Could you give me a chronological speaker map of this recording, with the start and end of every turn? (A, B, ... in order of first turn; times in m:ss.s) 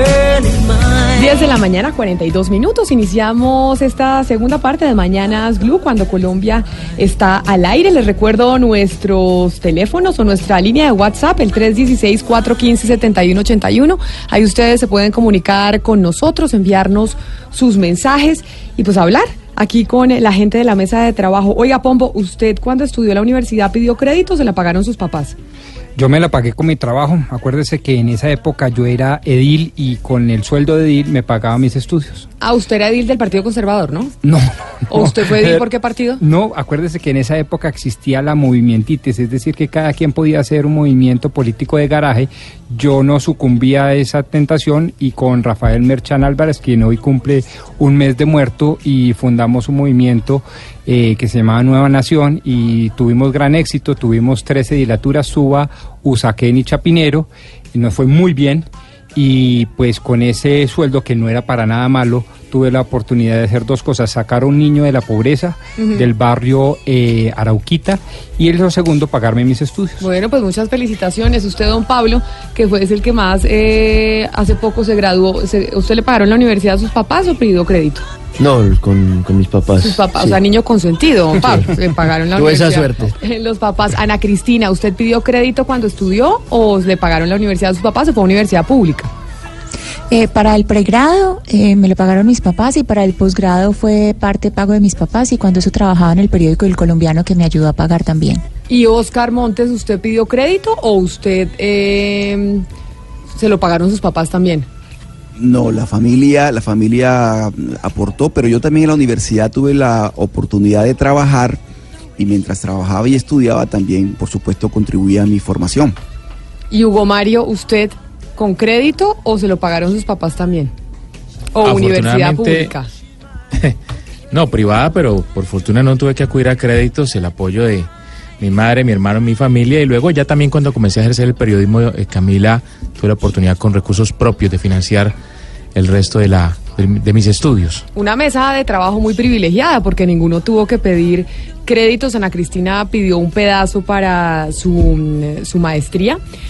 0:01.1-0:25.4 A
0:26.0-0:32.3 B
0:32.4-0:34.2 A
0:34.2-0:35.6 B
0:34.9-0:36.2 A
0:36.2-1:10.0 B
1:05.8-1:06.0 A
1:10.0-1:18.0 A
1:18.4-1:20.4 C
1:19.8-1:29.1 A
1:21.4-1:21.8 C
1:22.3-1:23.2 C
1:30.1-1:38.4 D
1:38.7-1:42.6 A
1:43.4-1:44.7 A
1:45.4-1:51.6 E
1:52.2-1:56.0 E
1:56.7-2:00.7 A
2:01.6-2:02.9 A
2:01.6-2:02.7 F
2:04.3-2:15.1 F
2:15.8-2:17.8 F
2:17.9-2:26.2 A